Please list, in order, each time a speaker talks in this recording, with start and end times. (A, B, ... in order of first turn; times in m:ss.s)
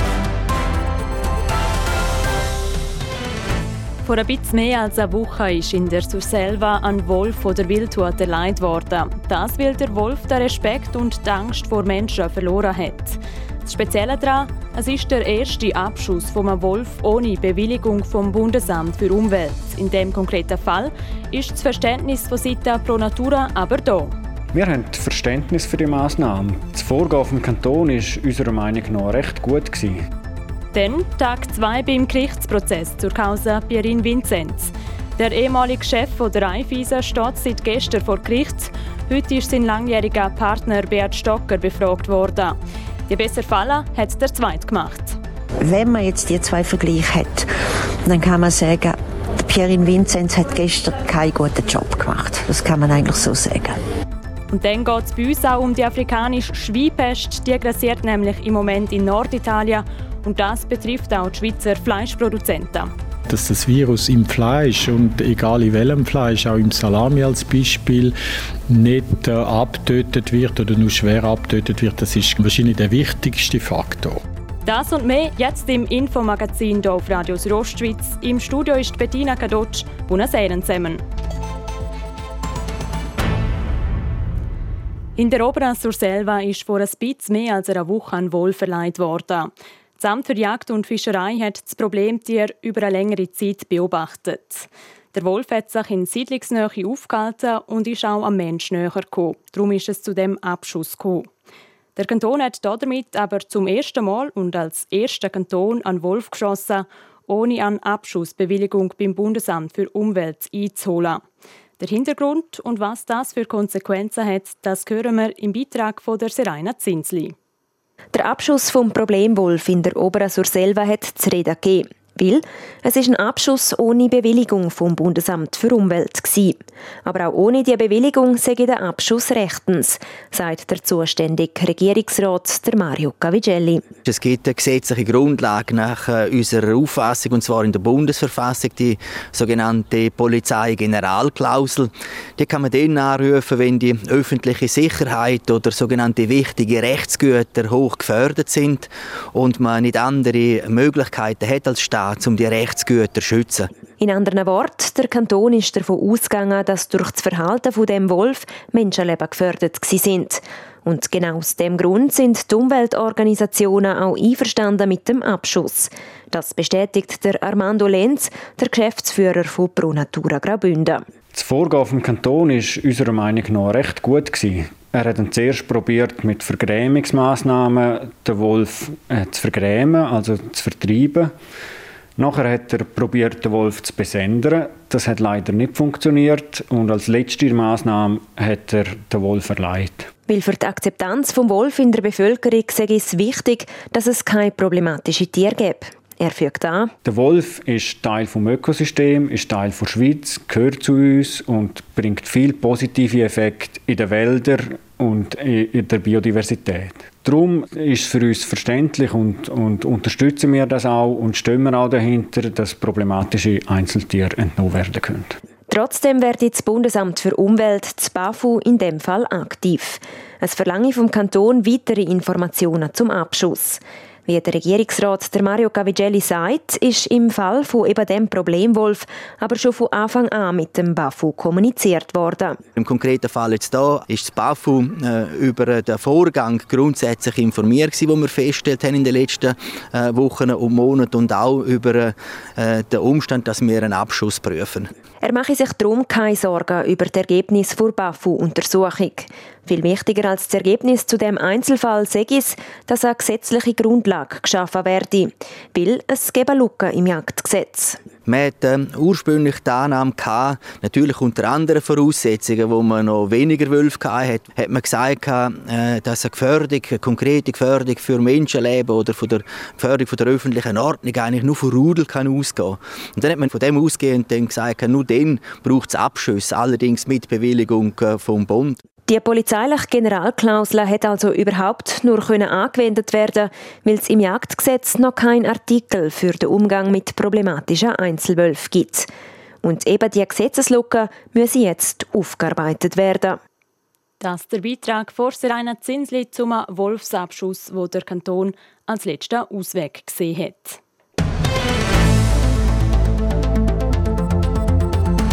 0:04.0-0:24.2 A
0:24.5-0:30.0 B
0:30.7-0:42.6 A
0:43.1-0:45.2 A
0:45.6-0:47.5 C
0:48.0-0:53.8 C
0:54.5-1:02.9 A
1:03.3-1:08.1 D
1:08.7-1:14.2 D
1:14.6-1:21.0 A
1:25.2-1:41.3 A
1:42.0-1:51.2 A
1:51.8-1:57.4 A
1:58.1-2:13.8 E
2:14.0-2:33.7 F
2:34.0-2:51.0 E
2:51.3-3:01.3 B
3:02.2-3:10.1 B
3:10.3-3:16.9 E
3:17.0-3:35.4 B
3:35.7-3:52.6 E
3:52.8-4:04.9 F
4:05.2-4:18.0 E
4:18.2-4:38.8 F
4:39.1-4:49.1 E
4:49.6-4:53.4 E
4:54.2-5:00.8 A